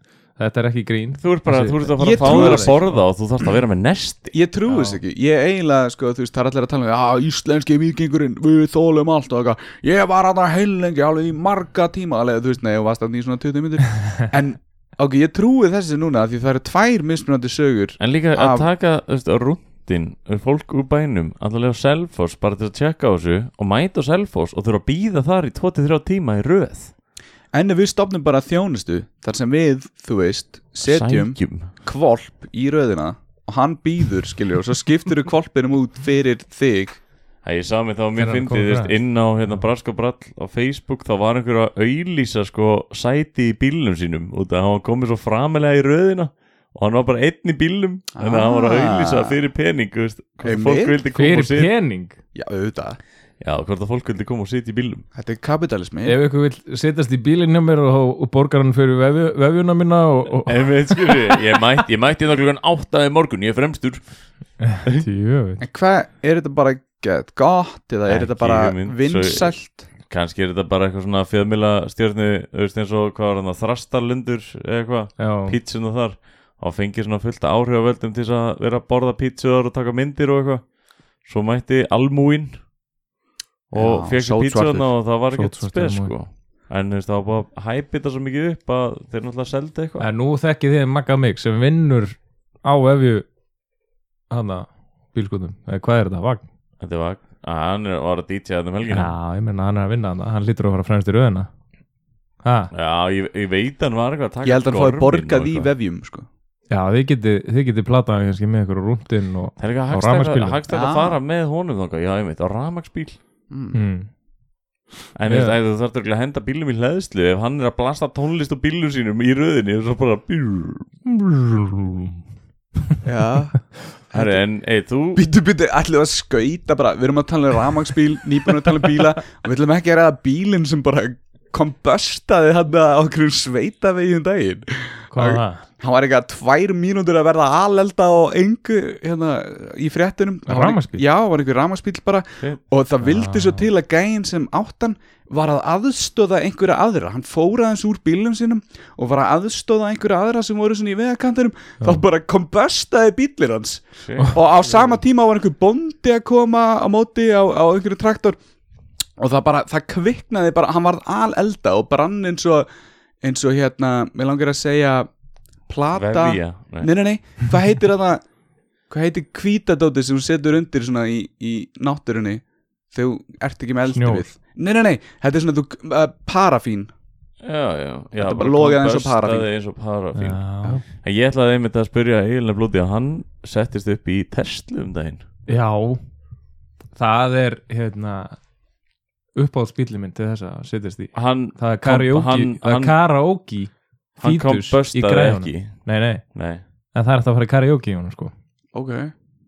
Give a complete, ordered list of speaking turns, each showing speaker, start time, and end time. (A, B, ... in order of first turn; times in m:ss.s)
0:00.4-0:03.0 A
0:01.2-0:04.3 B
0:02.0-0:02.8 C
0:04.3-0:18.7 C
0:04.7-0:05.0 A
0:18.0-0:26.9 B
0:27.5-0:37.0 C
0:30.8-0:31.7 B
0:37.4-0:51.7 B
0:38.2-0:38.9 A
0:48.2-0:49.4 C
0:50.4-0:51.0 C
0:51.1-0:52.2 A
0:52.3-0:53.0 C
0:53.4-0:55.0 B
0:55.1-0:56.2 C
0:56.0-1:00.7 A
1:00.4-1:04.0 B
1:04.6-1:05.6 A
1:05.6-1:09.9 C
1:08.1-1:09.5 B
1:10.0-1:20.6 B
1:15.2-1:15.6 A
1:21.2-1:22.6 B
1:23.7-1:30.0 B
1:23.7-1:24.9 C
1:25.3-1:26.1 A
1:30.0-1:33.3 A
1:34.3-1:36.4 A
1:36.8-1:39.1 B
1:38.9-1:41.5 A
1:42.4-1:42.7 A
1:42.7-1:45.7 B
1:44.4-1:46.2 C
1:46.7-1:50.6 A
1:49.6-1:53.2 B
1:50.7-1:51.2 C
1:53.5-1:53.8 C
1:53.7-1:54.1 A
1:55.1-2:00.9 B
1:55.3-1:55.5 A
2:01.0-2:02.2 A
2:03.0-2:04.4 C
2:04.1-2:05.2 B
2:05.1-2:38.4 C
2:15.1-2:15.6 A
2:20.5-2:21.0 A
2:23.0-2:23.7 A
2:34.0-2:34.9 B
2:39.2-2:42.6 C
2:43.2-2:45.1 C
2:45.7-2:48.2 C
2:45.9-2:46.9 B
2:48.9-2:56.9 C
2:53.9-2:54.3 A
2:57.4-3:05.2 B
2:58.2-2:59.5 C
3:00.2-3:00.8 A
3:05.5-3:06.0 A
3:06.9-3:08.4 A
3:09.4-3:16.2 A
3:11.1-3:12.9 B
3:14.2-3:15.8 B
3:16.3-3:16.6 B
3:16.9-3:18.3 A
3:18.7-3:19.1 C